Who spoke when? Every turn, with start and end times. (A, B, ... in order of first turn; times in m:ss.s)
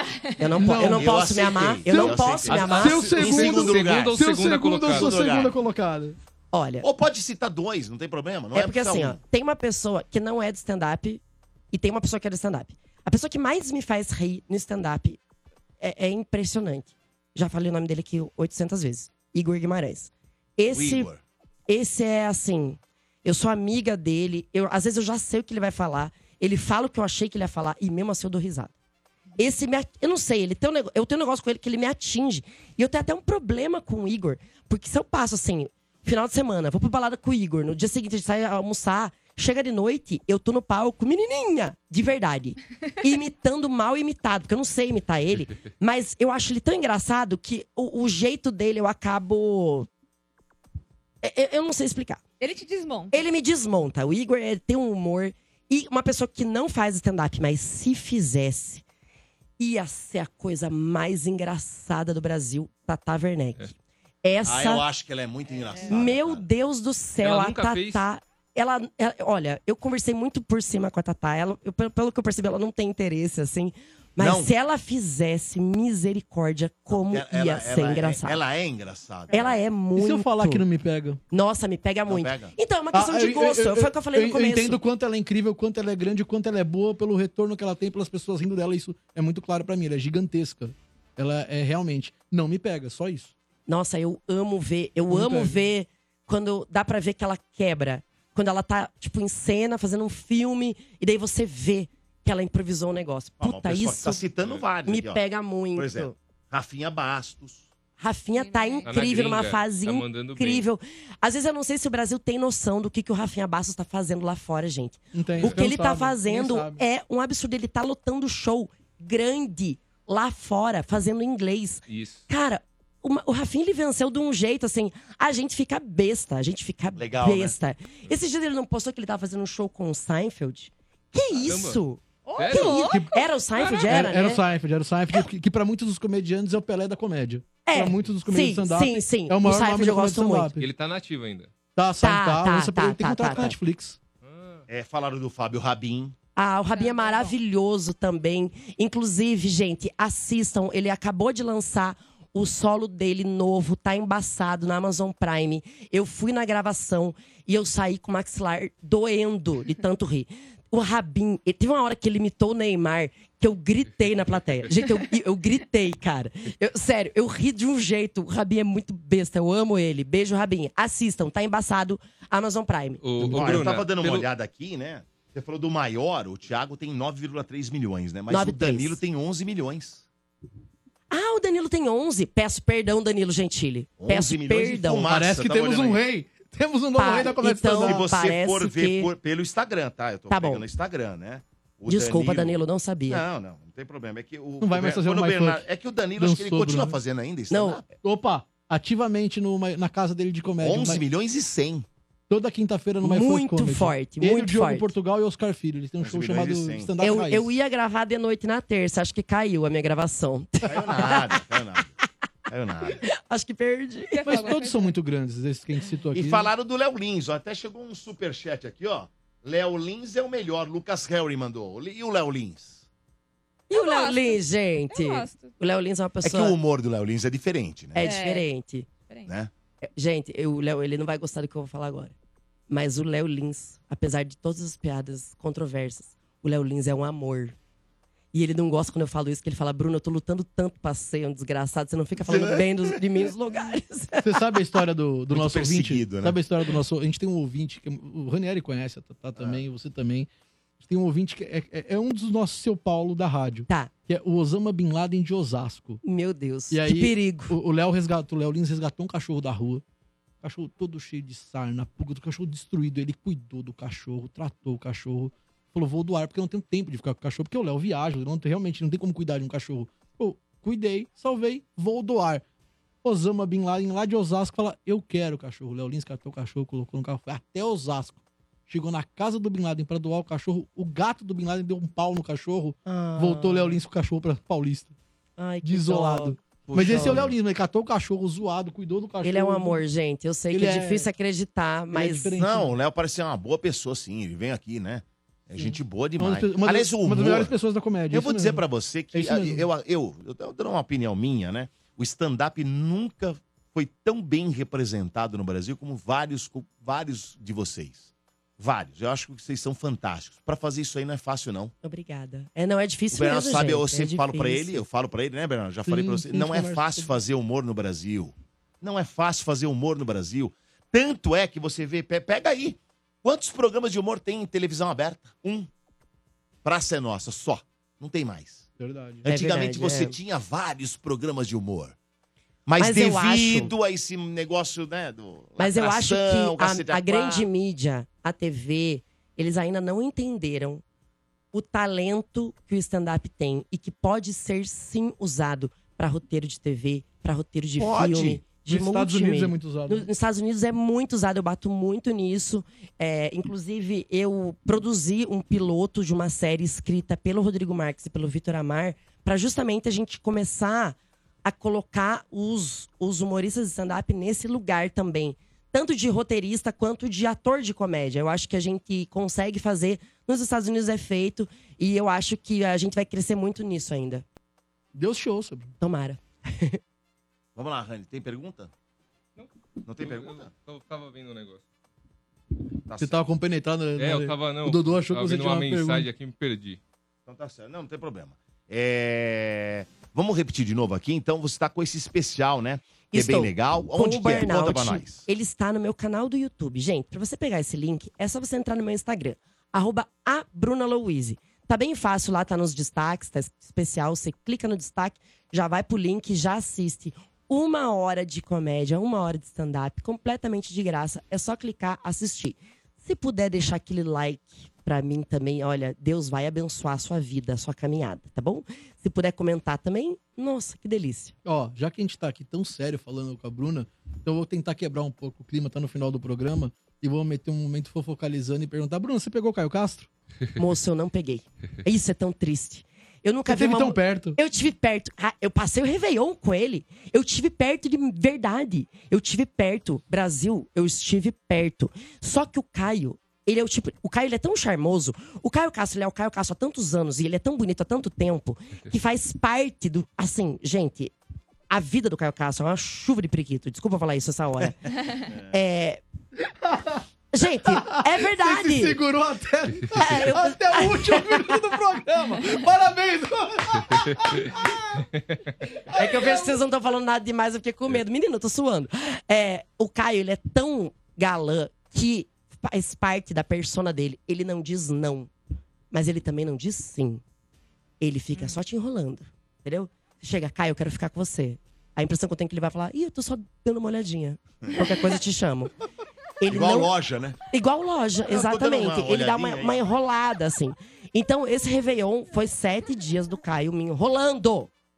0:00.4-0:03.1 A
0:00.6-0:01.3 B
0:00.8-0:04.2 C
0:01.8-0:06.2 B
0:02.4-0:05.1 D
0:04.8-0:05.5 C
0:06.5-0:06.9 A
0:06.8-0:09.2 C
0:08.5-0:15.2 A
0:15.8-0:21.1 A
0:20.7-0:21.2 C
0:21.7-0:28.7 A
0:29.4-0:49.9 A
0:51.2-0:52.2 A
0:52.4-0:53.2 E
0:53.1-0:58.8 A
0:59.6-1:03.7 A
1:04.2-1:04.8 A
1:04.4-1:06.4 C
1:05.7-1:06.0 E
1:05.9-1:18.4 A
1:07.2-1:08.0 D
1:14.2-1:14.5 C
1:16.9-1:19.6 C
1:19.3-1:19.6 E
1:19.3-1:20.6 A
1:19.9-1:21.2 B
1:21.3-1:24.8 A
1:22.0-1:22.5 C
1:22.9-1:33.3 B
1:33.7-1:44.2 A
1:35.1-1:35.6 B
1:43.4-1:45.2 C
1:44.8-1:46.2 A
1:45.7-1:47.6 C
1:48.0-2:14.4 A
1:48.3-1:48.9 E
1:48.8-1:50.6 D
1:55.1-1:56.8 B
2:01.9-2:02.2 D
2:06.9-2:07.6 C
2:11.4-2:11.8 D
2:12.2-2:14.0 E
2:12.4-2:12.8 D
2:12.6-2:13.2 B
2:13.9-2:20.6 B
2:17.6-2:20.5 A
2:20.6-2:21.5 D
2:21.8-2:24.0 B
2:22.0-2:23.6 A
2:24.2-2:24.6 D
2:24.7-2:26.1 C
2:26.4-2:53.0 A
2:26.7-2:27.3 E
2:53.0-2:54.3 D
2:53.2-3:00.0 C
2:58.3-2:59.0 A
3:01.1-3:05.1 A
3:04.0-3:06.0 C
3:05.1-3:08.0 B
3:07.0-3:09.1 A
3:07.8-3:12.5 C
3:10.3-3:10.6 A
3:11.9-3:13.2 A
3:13.1-3:17.9 C
3:14.6-3:15.6 B
3:16.2-3:17.0 B
3:17.5-3:17.8 A
3:18.0-3:21.0 B
3:20.6-3:21.9 C
3:22.3-3:27.5 B
3:23.0-3:24.9 A
3:26.0-3:26.9 C
3:27.0-3:31.4 A
3:30.6-3:32.0 C
3:32.5-3:33.0 C
3:32.9-3:34.5 A
3:34.1-3:34.9 E
3:34.2-3:36.5 B
3:36.1-3:42.8 C
3:43.7-3:46.6 A
3:43.7-3:45.6 E
3:46.2-3:48.1 C
3:47.9-3:48.9 A
3:48.0-3:48.4 E
3:49.2-3:49.5 C
3:50.0-3:52.1 A
3:52.7-3:57.5 A
3:58.3-4:04.3 A
4:02.2-4:02.9 C
4:04.2-4:10.3 B
4:05.3-4:06.4 C
4:09.4-4:09.6 C
4:10.8-4:16.0 B
4:16.0-4:17.5 A
4:16.7-4:19.8 B
4:20.4-4:32.4 B
4:33.0-4:44.9 B
4:42.8-4:43.8 A
4:45.4-4:47.2 A
4:45.6-4:49.8 B
4:46.7-4:47.3 C
4:49.2-4:52.4 A
4:50.5-4:51.1 B
4:51.9-4:52.8 B
4:52.3-4:57.6 C
4:55.6-4:59.7 B
4:58.1-5:11.7 C
5:11.8-5:14.8 A
5:13.1-5:25.7 C
5:15.9-5:17.1 B
5:26.6-5:28.6 C
5:28.8-5:29.3 B
5:29.2-5:30.2 A
5:29.2-5:32.0 C
5:32.6-5:37.5 C
5:32.8-5:33.7 A
5:35.6-5:40.8 A
5:41.5-6:14.2 A
5:47.8-5:48.4 C
5:48.6-5:50.1 B
6:14.9-6:15.7 B
6:15.8-6:16.8 A
6:17.5-6:18.7 C
6:19.4-6:21.6 D
6:19.8-6:20.5 C
6:22.9-6:23.2 C
6:23.0-6:26.1 B
6:24.0-6:26.8 D
6:27.2-6:35.2 C
6:33.1-7:01.3 A
7:01.4-7:10.1 B
7:10.6-7:31.1 A
7:13.4-7:14.4 B
7:31.7-7:34.9 A
7:35.3-7:35.5 C
7:35.5-7:36.0 A
7:36.5-7:37.0 B
7:37.3-7:39.0 A
7:37.6-7:45.1 B
7:40.0-7:41.6 A
7:45.6-7:46.6 B
7:46.0-7:55.3 A
7:55.9-7:57.2 A
7:58.0-8:05.7 A
8:04.6-8:04.9 C
8:06.4-8:06.9 A
8:06.5-8:07.4 C
8:07.5-8:14.7 A
8:08.3-8:09.8 C